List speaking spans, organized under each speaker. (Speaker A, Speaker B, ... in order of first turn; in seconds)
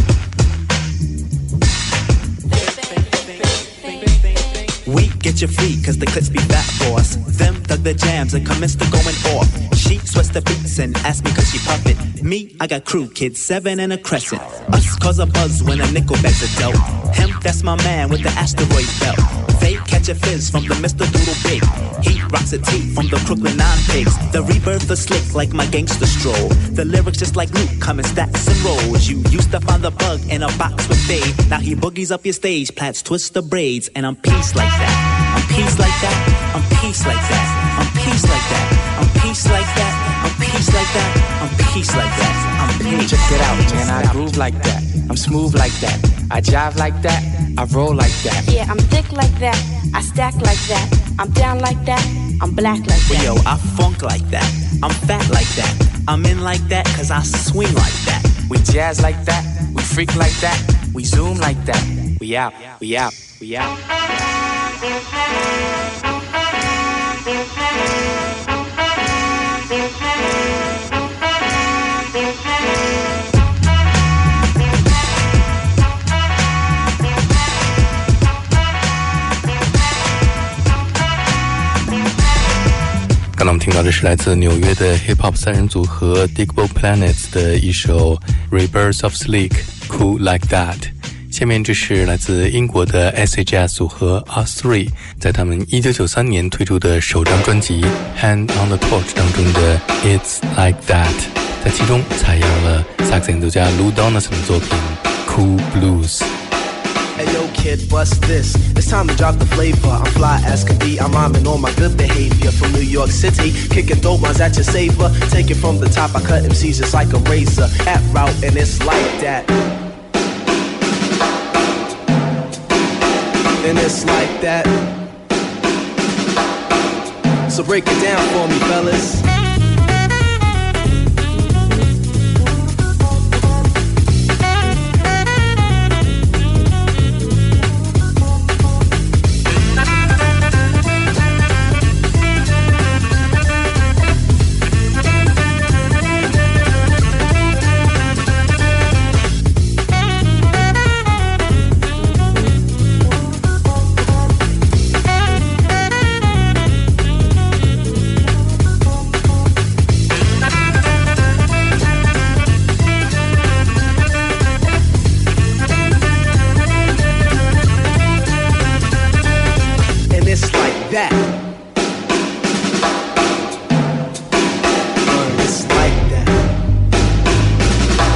Speaker A: 4.8-44.1, 53.1-58.5
Speaker B: 43.0-48.5, 58.5-64.3
Speaker C: 48.4-53.4
Speaker D: 83.3-106.3
Speaker E: 107.2-119.5, 123.6-124.7, 127.5-129.2, 170.1-171.2, 175.0-176.4